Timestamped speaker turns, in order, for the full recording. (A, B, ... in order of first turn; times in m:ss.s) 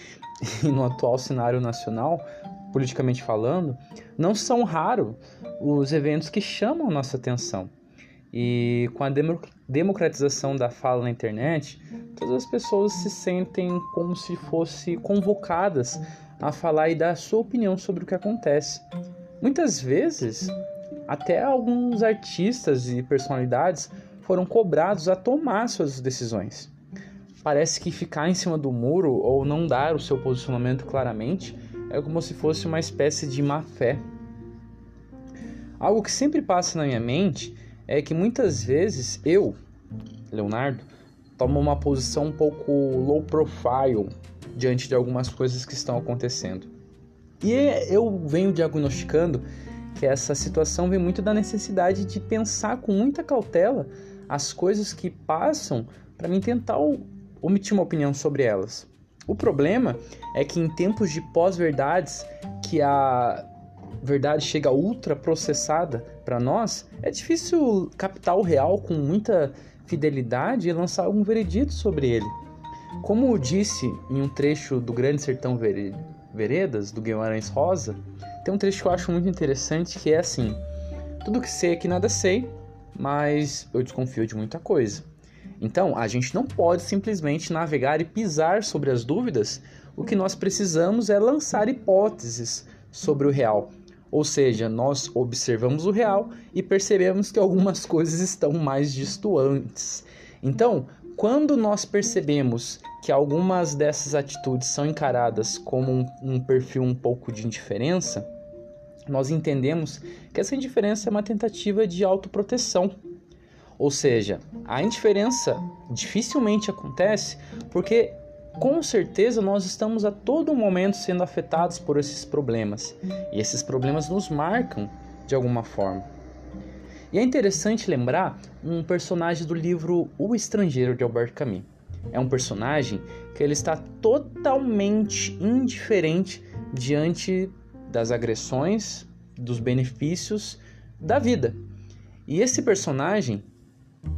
0:00.4-0:07.7 A
0:08.3-0:18.8 A
0:19.4-0:20.5 A
0:21.1-0:26.7 A
0:27.4-0:34.0 A
0:35.8-0:39.6 A
0:40.3-0:46.7 A
0:47.4-0:49.4 A
0:50.0-1:03.5 A
1:04.0-1:12.3 A
1:13.0-1:20.6 A
1:21.2-1:25.0 A
1:25.6-1:48.3 A
1:49.1-1:53.0 A
1:53.8-2:06.1 A
2:07.1-2:21.6 A
2:22.3-2:23.5 A